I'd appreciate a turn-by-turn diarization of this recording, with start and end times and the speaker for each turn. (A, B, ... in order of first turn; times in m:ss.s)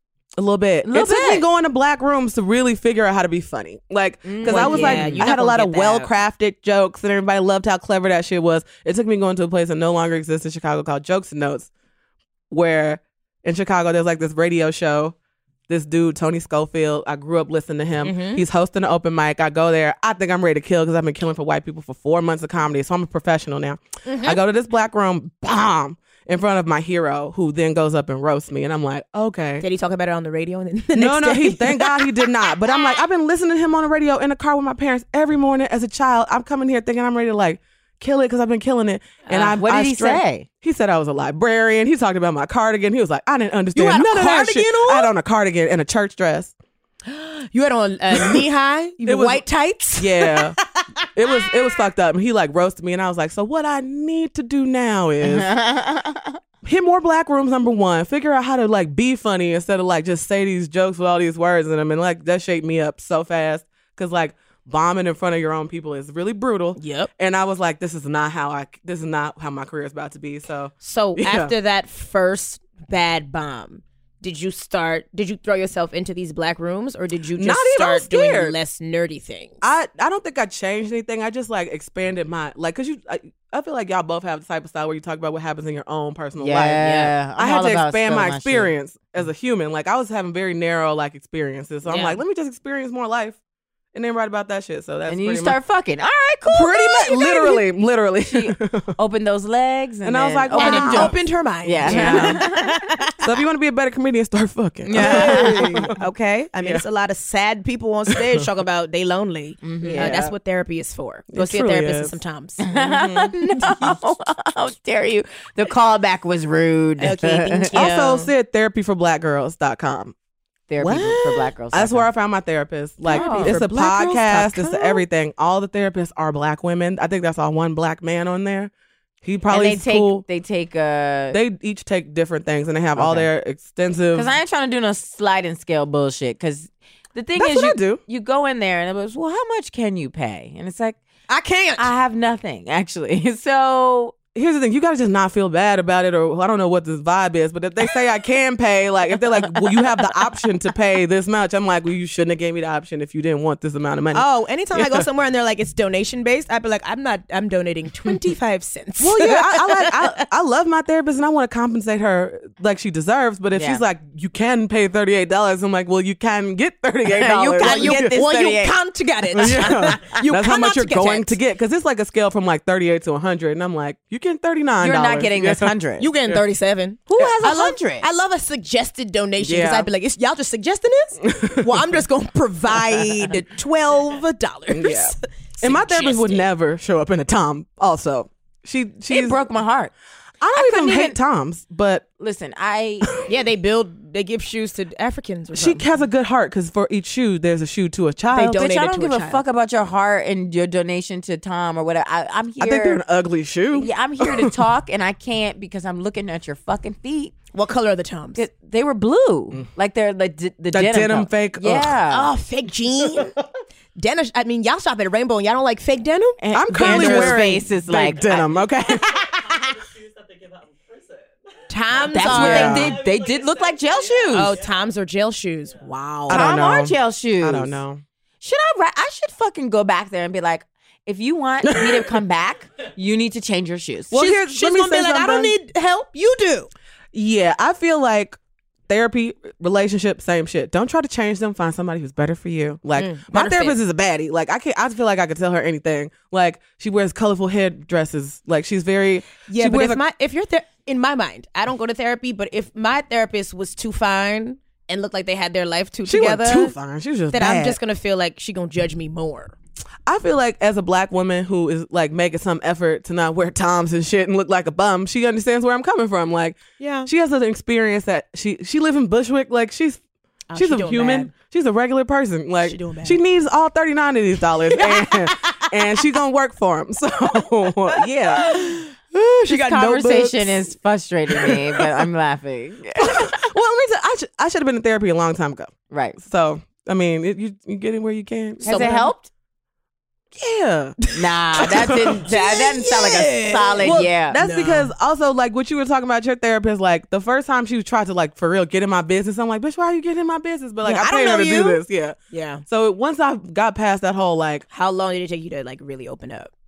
0:00.4-0:11.7 A
0:00.8-0:01.4 B
0:04.2-0:05.3 B
0:04.5-0:06.1 C
0:12.5-0:15.1 A
0:15.7-0:29.6 A
0:18.0-0:18.4 C
0:24.0-0:24.4 C
0:29.6-0:32.3 C
0:31.0-0:46.5 A
0:39.3-0:40.5 B
0:43.7-0:45.1 C
0:47.1-0:51.5 C
0:49.0-0:49.4 A
0:50.0-0:50.6 A
0:51.1-0:55.5 A
0:55.2-0:56.4 B
0:56.6-1:11.5 A
1:06.8-1:07.1 C
1:10.8-1:19.6 C
1:17.4-1:18.6 A
1:19.6-1:33.4 A
1:26.4-1:28.7 B
1:31.8-1:32.2 B
1:33.9-1:35.6 A
1:35.1-1:37.6 B
1:36.4-1:38.9 A
1:38.3-1:42.9 B
1:40.0-1:41.2 A
1:40.6-1:43.2 C
1:41.8-1:42.4 A
1:43.2-1:45.9 A
1:44.8-1:45.9 B
1:44.9-1:52.7 C
1:49.6-1:50.1 B
1:49.8-1:50.3 A
1:51.3-1:52.2 A
1:52.6-1:57.8 B
1:52.7-1:53.4 A
1:53.4-1:54.0 C
1:57.0-1:58.3 C
1:57.7-2:00.1 A
2:00.7-2:02.1 B
2:00.8-2:08.7 A
2:03.1-2:05.0 C
2:03.1-2:03.6 B
2:09.2-2:10.2 A
2:09.5-2:11.4 B
2:11.3-2:14.3 A
2:13.0-2:13.3 B
2:14.1-2:21.0 B
2:17.4-2:18.0 A
2:21.3-2:21.9 C
2:21.8-2:24.1 B
2:24.3-2:35.0 A
2:34.1-2:40.2 C
2:39.0-2:48.2 A
2:43.5-2:43.8 B
2:47.1-2:48.8 B
2:47.6-2:51.4 C
2:49.3-2:55.7 A
2:49.4-2:49.9 B
2:54.8-2:56.1 B
2:56.0-3:05.2 C
2:57.1-2:58.0 B
2:59.4-2:59.9 A
3:01.2-3:01.8 A
3:04.7-3:09.4 A
3:05.6-3:06.5 B
3:09.1-3:09.9 B
3:10.4-3:12.0 A
3:10.5-3:11.2 B
3:12.2-3:13.2 B
3:13.2-3:15.9 C
3:15.5-3:18.6 A
3:18.3-3:19.4 C
3:18.4-3:23.0 B
3:22.6-3:24.6 A
3:23.7-3:27.3 B
3:27.5-3:28.4 C
3:28.3-3:32.3 B
3:30.7-3:32.0 A
3:32.1-3:33.3 C
3:34.0-3:37.4 C
3:36.4-3:38.6 B
3:36.5-3:39.6 A
3:41.7-3:43.0 C
3:42.0-3:44.6 B
3:42.2-3:43.0 A
3:44.3-3:46.5 C
3:46.2-3:48.0 A
3:46.3-3:47.8 B
3:48.4-3:54.2 B
3:51.7-3:52.1 A
3:54.1-3:55.5 A
3:54.1-3:56.7 C
3:57.1-3:58.4 A
3:58.9-4:10.0 A
4:03.0-4:03.8 C
4:09.5-4:16.7 C
4:16.1-4:17.8 A
4:17.3-4:19.5 C
4:20.0-4:30.0 A
4:26.8-4:27.1 C
4:30.5-4:31.3 C
4:30.5-4:38.5 A
4:32.6-4:33.2 C
4:34.8-4:35.7 C
4:38.4-4:40.6 C
4:39.5-4:43.4 B
4:43.0-4:49.1 A
4:45.9-4:46.2 B
4:48.6-4:49.3 B
4:48.6-4:49.1 C
4:50.3-4:51.0 A
4:51.1-4:54.9 C
4:51.1-4:54.4 B
4:51.6-4:52.2 A
4:53.8-5:02.2 A
5:00.8-5:02.6 C
5:02.7-5:04.6 A
5:04.7-5:06.5 C